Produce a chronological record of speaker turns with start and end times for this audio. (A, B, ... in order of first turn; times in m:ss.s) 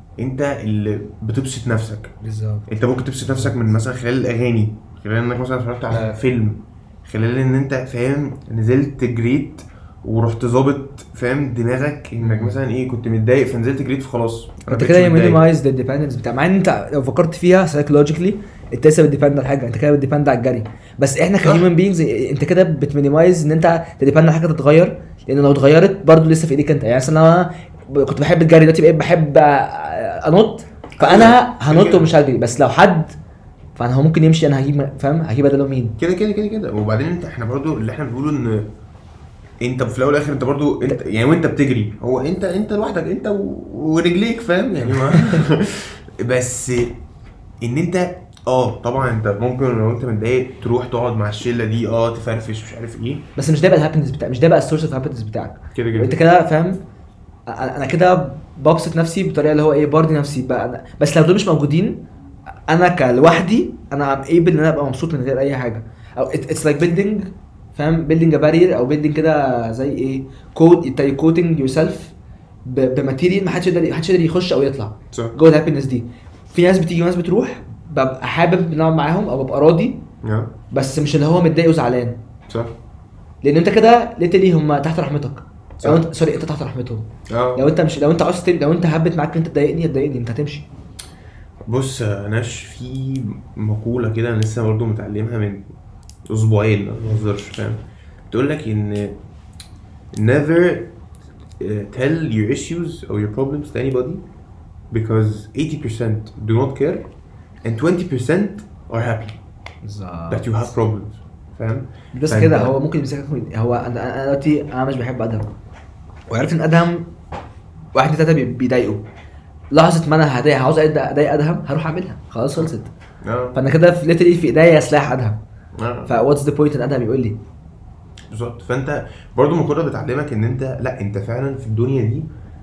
0:00.2-0:02.1 A
0:02.2-0:03.6 B
0:02.7-0:15.5 A
0:12.2-0:12.6 B
0:14.7-0:33.2 B
0:21.4-0:21.7 A
0:31.0-0:32.1 A
0:33.8-0:36.0 B
0:36.0-0:38.7 A
0:39.6-0:47.0 A
0:44.8-0:45.4 B
0:47.6-0:53.3 A
0:53.4-0:56.8 B
0:55.8-0:56.2 A
0:57.5-1:02.0 B
1:02.7-1:12.1 B
1:12.6-1:20.0 B
1:20.2-1:20.5 A
1:20.7-1:22.2 B
1:22.5-1:22.8 A
1:23.4-1:30.7 B
1:25.8-1:26.1 A
1:27.3-1:27.7 A
1:31.7-1:35.7 A
1:36.3-1:39.2 A
1:40.2-1:40.9 A
1:41.6-1:44.2 A
1:44.9-1:47.1 A
1:47.6-1:49.4 A
1:49.8-1:50.6 B
1:50.3-1:52.8 A
1:52.1-1:55.5 B
1:56.3-1:57.1 B
1:58.0-1:59.0 B
1:59.7-2:02.9 B
2:03.2-2:03.6 A
2:03.6-2:05.4 B
2:05.8-2:06.1 A
2:06.1-2:07.4 B
2:08.3-2:12.3 A